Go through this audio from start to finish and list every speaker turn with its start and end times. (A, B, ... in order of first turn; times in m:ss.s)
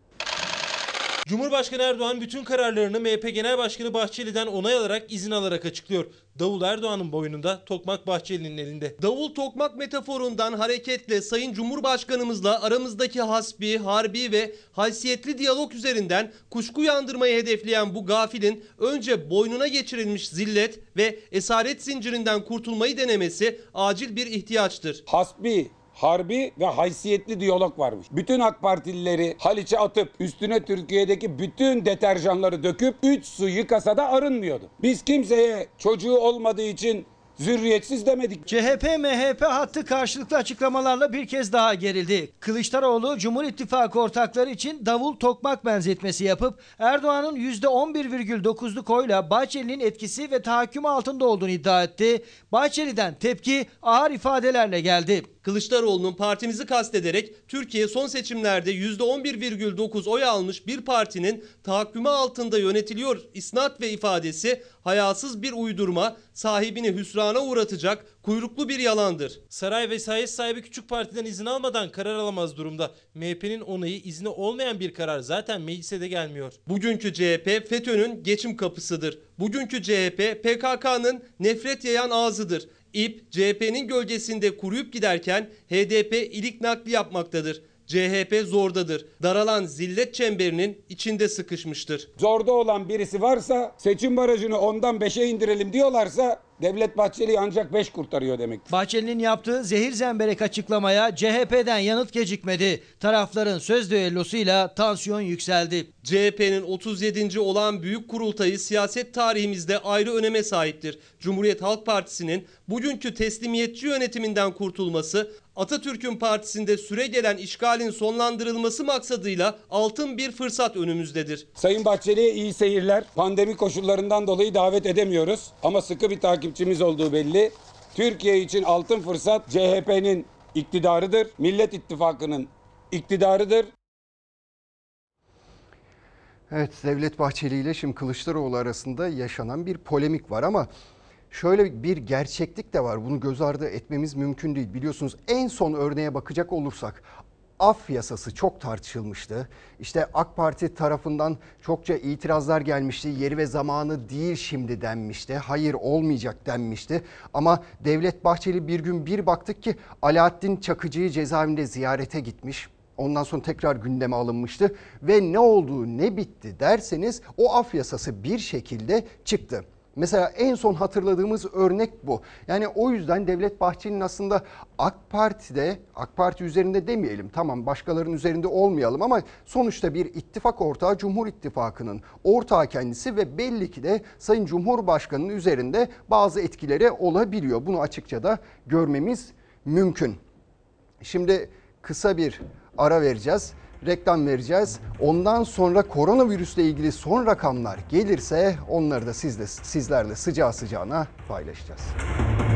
0:01.2-0:09.0 A
0:09.0-0:25.0 B
0:25.1-0:38.4 C
0:38.5-0:55.3 D
0:55.4-1:09.4 B
1:09.5-1:16.6 A
1:16.6-1:32.1 B
1:32.2-1:38.7 C
1:38.7-1:45.9 D
1:46.0-2:01.4 B
2:01.6-2:13.7 C
2:16.5-2:20.7 E
2:21.3-3:10.2 E
3:11.0-3:21.9 E